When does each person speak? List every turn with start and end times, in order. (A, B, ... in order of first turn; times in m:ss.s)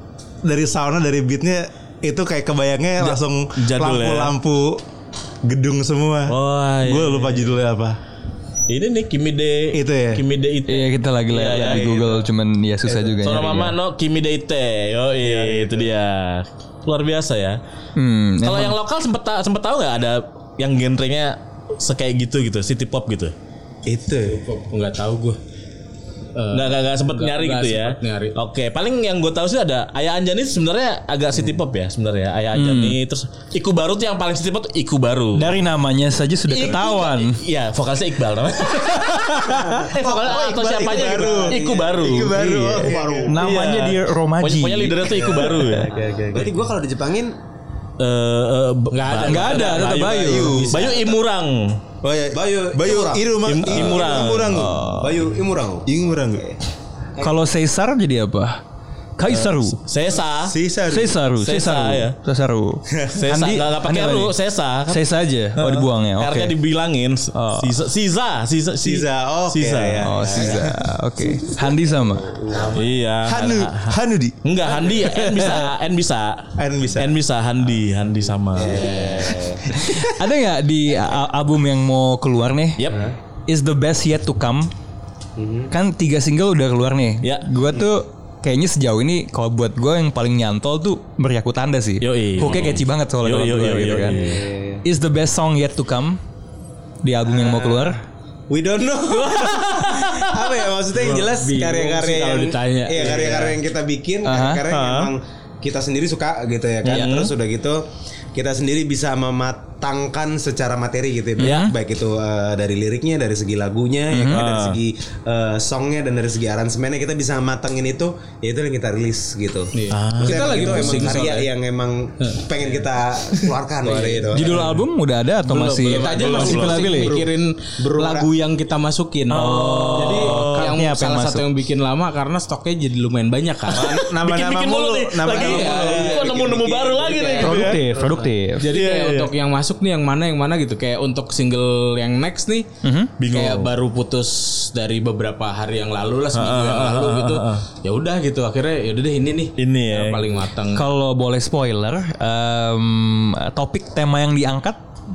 0:00.4-0:04.8 A
0:03.0-0:04.3 B
0:05.4-0:08.0 A
0:06.3-0:07.5 B
0:08.7-0:12.0 B
0:09.7-0:10.2 A
0:10.6-0:13.7 C
0:11.5-0:12.1 A
0:13.2-0:17.6 B
0:18.0-0:18.8 C
0:18.4-0:23.3 B
0:23.9-0:24.3 D
0:24.2-0:25.4 E
0:26.4-0:28.3 E
0:26.5-0:35.5 B
0:32.5-0:33.0 C
0:35.3-0:37.4 C
0:36.5-0:45.9 B
0:39.8-0:43.4 D
0:40.2-0:43.4 A
0:43.2-0:45.7 C
0:45.1-0:47.4 D
0:48.0-0:51.8 B
0:48.9-0:51.0 E
0:49.2-0:50.7 C
0:50.1-0:51.2 D
0:52.0-0:54.8 A
0:52.3-0:55.9 D
0:53.4-0:54.6 B
0:54.5-0:55.3 C
0:55.9-0:56.5 A
0:57.2-0:58.6 C
0:59.2-0:59.8 C
0:59.3-1:00.6 B
1:00.4-1:01.1 A
1:00.9-1:04.3 C
1:01.4-1:02.1 B
1:03.1-1:05.0 B
1:04.9-1:06.5 C
1:05.6-1:10.3 B
1:07.3-1:07.8 C
1:08.8-1:10.3 A
1:10.0-1:12.3 C
1:10.2-1:10.7 D
1:12.3-1:12.8 D
1:12.7-1:19.3 B
1:13.3-1:14.3 A
1:15.4-1:15.7 C
1:16.6-1:17.1 A
1:18.6-1:19.6 D
1:18.7-1:19.4 E
1:19.9-1:22.8 C
1:23.5-1:24.7 C
1:25.4-1:25.7 D
1:25.7-1:34.2 C
1:32.0-1:34.4 B
1:34.0-1:34.8 D
1:34.8-1:36.2 C
1:37.0-1:38.0 C
1:37.3-1:38.0 D
1:38.5-2:04.7 D
1:39.1-1:40.5 B
1:41.0-1:43.6 E
1:44.2-1:44.6 C
1:44.7-1:45.1 B
1:46.8-1:47.3 B
1:51.4-1:51.7 C
1:51.4-1:51.7 B
1:54.1-1:54.4 C
1:54.3-1:54.8 B
1:59.7-2:01.5 E
1:59.9-2:01.2 B
2:03.8-2:04.3 E
2:04.3-2:07.2 C
2:05.5-2:13.9 E
2:05.9-2:06.9 B
2:06.2-2:07.3 D
2:07.8-2:08.3 D
2:09.3-2:10.7 B
2:09.3-2:11.5 C
2:13.7-2:17.8 B
2:13.7-2:16.1 A
2:15.3-2:17.7 E
2:15.6-2:18.2 D
2:17.4-2:18.6 C
2:18.6-2:22.7 E
2:18.7-2:19.3 B
2:22.8-2:23.1 C
2:23.2-2:23.7 B
2:23.3-2:30.8 E
2:26.3-2:27.6 B
2:29.6-2:30.3 B
2:30.7-2:34.8 C